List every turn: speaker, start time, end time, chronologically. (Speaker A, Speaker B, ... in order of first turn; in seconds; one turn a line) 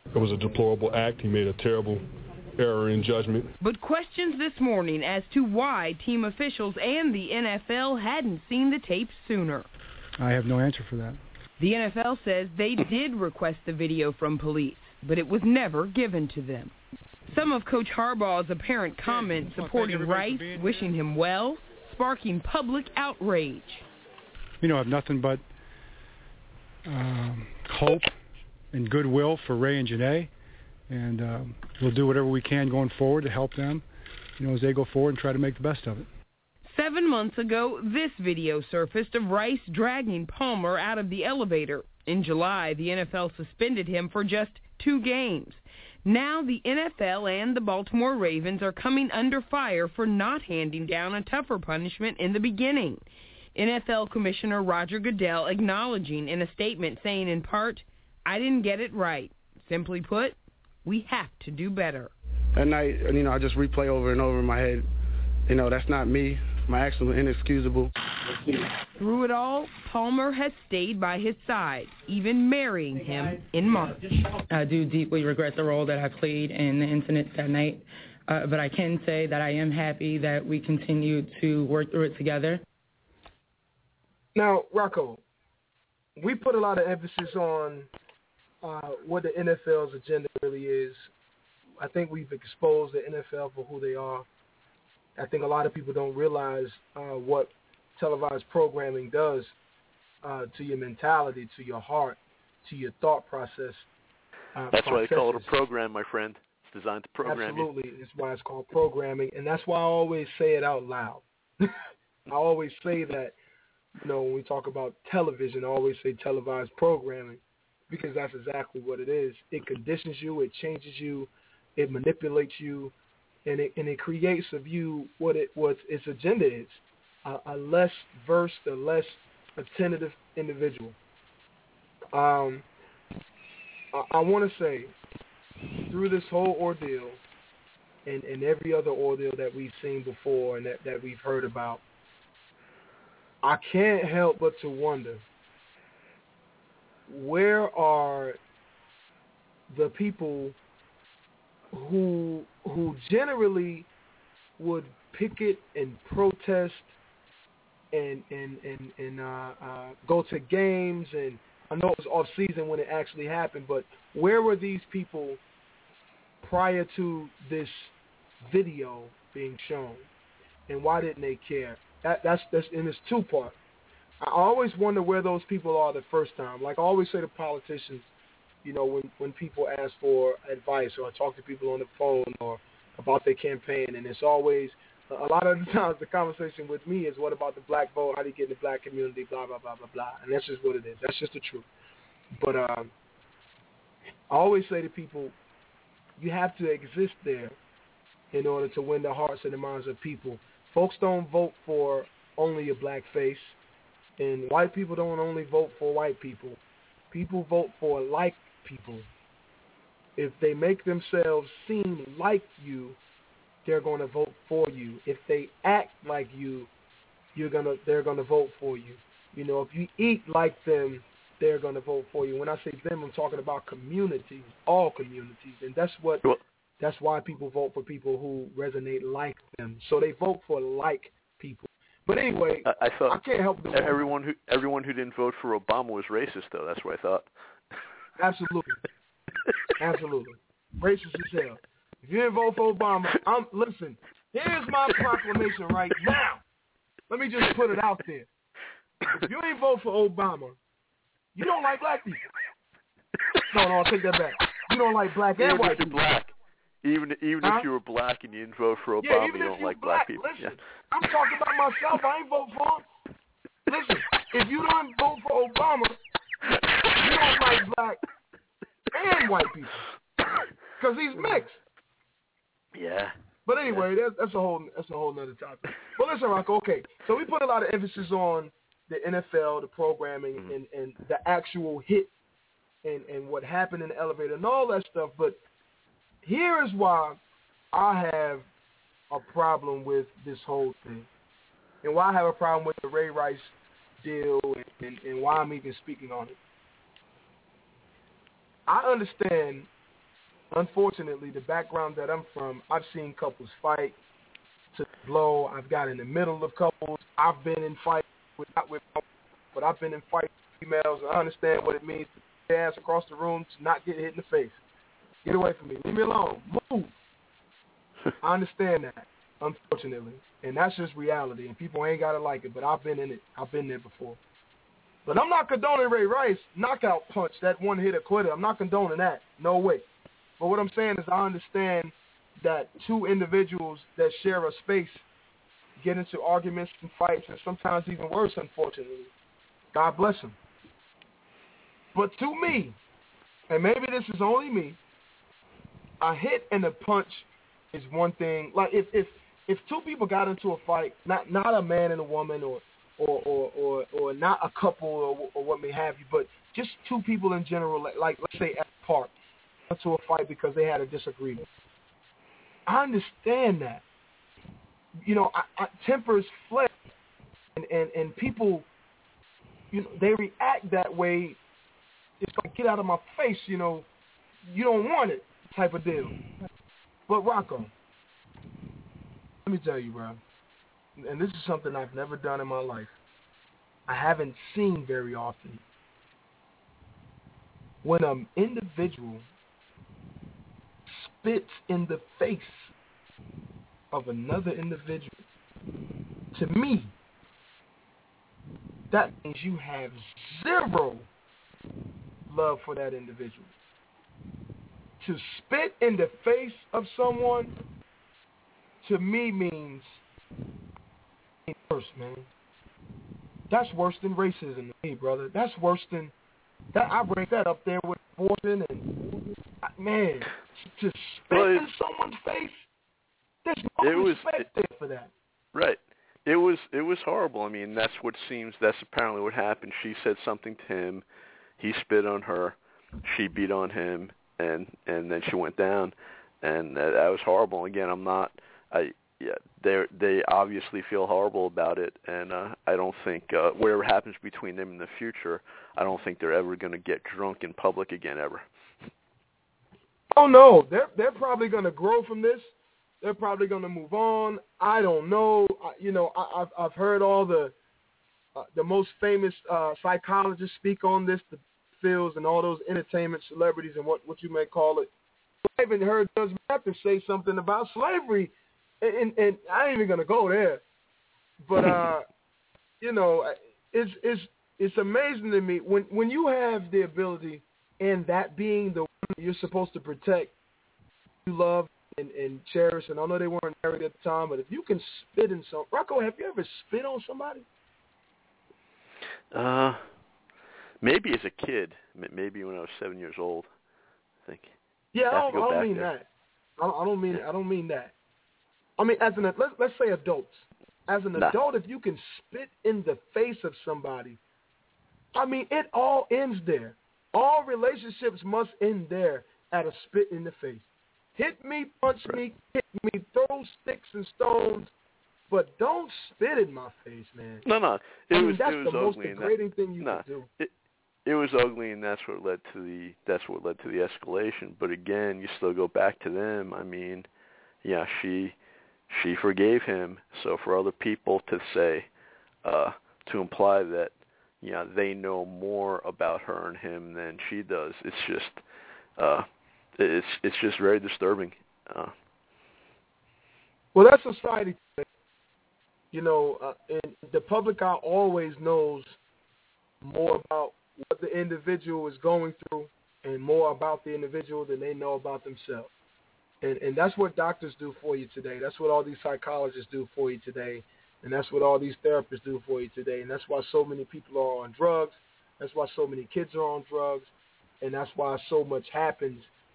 Speaker A: 0.1-3.5
Speaker B: 3.6-9.7
Speaker C: 10.2-11.2
Speaker B: 11.6-16.8
Speaker B: 17.3-23.8
Speaker C: 19.0-20.9
Speaker C: 24.6-25.4
Speaker C: 26.9-28.1
Speaker C: 28.7-30.3
Speaker C: 30.9-33.9
Speaker C: 34.4-36.1
Speaker B: 36.7-53.0
Speaker B: 53.5-62.1
Speaker D: 62.6-64.9
Speaker D: 65.5-67.9
Speaker B: 69.0-74.0
Speaker E: 74.4-82.6
Speaker F: 84.3-85.2
Speaker F: 86.2-87.9
Speaker F: 88.6-91.1
Speaker F: 91.8-94.3
Speaker F: 95.2-99.5
Speaker F: 100.2-103.9
Speaker F: 104.5-105.5
Speaker G: 104.7-107.7
Speaker F: 107.2-113.3
Speaker F: 114.0-122.9
Speaker F: 123.5-131.0
Speaker F: 132.1-132.7
Speaker F: 133.9-134.9
Speaker F: 135.9-137.2
Speaker F: 138.1-141.8
Speaker F: 143.4-145.2
Speaker F: 147.1-148.4
Speaker F: 149.7-150.6
Speaker F: 151.7-153.9
Speaker F: 154.6-156.9
Speaker F: 157.9-165.4
Speaker F: 166.4-170.1
Speaker F: 170.7-173.6
Speaker F: 174.2-178.1
Speaker F: 178.6-191.7
Speaker F: 192.3-192.9
Speaker F: 194.3-195.4
Speaker F: 196.2-197.6
Speaker F: 198.3-203.6
Speaker F: 204.2-206.6
Speaker F: 207.1-209.1
Speaker F: 210.2-213.0
Speaker F: 213.7-216.7
Speaker F: 217.3-226.2
Speaker F: 226.8-234.1
Speaker G: 232.7-233.2
Speaker G: 233.7-237.3
Speaker F: 238.2-238.8
Speaker F: 239.8-246.4
Speaker F: 247.1-248.3
Speaker F: 249.1-250.6
Speaker F: 251.3-252.2
Speaker F: 253.5-255.9
Speaker G: 255.4-256.3
Speaker G: 256.8-260.6
Speaker F: 257.4-257.7
Speaker F: 259.0-262.9
Speaker F: 263.7-266.0
Speaker F: 266.9-268.0
Speaker F: 268.9-269.9
Speaker F: 270.8-271.6
Speaker G: 272.7-273.1
Speaker F: 273.5-282.1
Speaker F: 282.8-285.4
Speaker F: 286.2-287.2
Speaker F: 287.7-288.5
Speaker F: 289.1-291.1
Speaker F: 291.8-296.4
Speaker F: 298.7-299.7
Speaker F: 300.5-304.0
Speaker F: 304.7-314.6
Speaker F: 315.2-316.9
Speaker F: 318.2-324.2
Speaker F: 325.1-329.9
Speaker F: 330.4-335.0
Speaker F: 335.8-339.1
Speaker F: 339.7-340.4
Speaker F: 341.9-342.8
Speaker F: 343.5-344.8
Speaker F: 346.0-359.1
Speaker F: 359.7-361.5
Speaker F: 362.7-363.8
Speaker F: 365.0-366.8
Speaker F: 367.6-368.7
Speaker F: 369.7-371.4
Speaker F: 372.2-373.9
Speaker F: 374.5-376.2
Speaker F: 377.1-377.7
Speaker F: 379.4-380.2
Speaker F: 381.0-382.9
Speaker F: 383.9-385.6
Speaker F: 387.8-389.3
Speaker F: 390.9-392.7
Speaker F: 393.9-395.2
Speaker F: 396.3-396.9
Speaker F: 398.9-401.1
Speaker F: 402.3-403.5
Speaker F: 405.0-407.5
Speaker F: 408.8-410.0
Speaker F: 411.5-412.3
Speaker F: 413.5-416.1
Speaker F: 416.7-419.0
Speaker F: 419.6-422.7
Speaker G: 421.3-421.7
Speaker F: 423.4-425.1
Speaker G: 423.8-424.4
Speaker G: 425.5-431.1
Speaker G: 431.6-448.5
Speaker F: 450.1-457.5
Speaker F: 458.4-464.9
Speaker F: 465.5-470.6
Speaker F: 471.4-472.1
Speaker F: 472.8-480.3
Speaker F: 481.2-487.5
Speaker G: 489.3-489.8
Speaker G: 490.8-493.5
Speaker G: 494.2-494.6
Speaker F: 494.9-496.1
Speaker G: 495.1-495.9
Speaker F: 496.6-497.9
Speaker F: 498.8-504.2
Speaker F: 505.1-514.7
Speaker F: 515.3-517.5
Speaker G: 517.4-520.5
Speaker F: 518.1-520.3
Speaker G: 521.0-527.1
Speaker G: 527.6-528.4
Speaker G: 528.9-531.9
Speaker G: 532.4-538.4
Speaker G: 539.0-539.3
Speaker G: 539.8-541.9
Speaker F: 543.8-544.9
Speaker F: 545.9-549.0
Speaker F: 549.8-555.7
Speaker F: 556.4-567.1
Speaker F: 567.6-569.3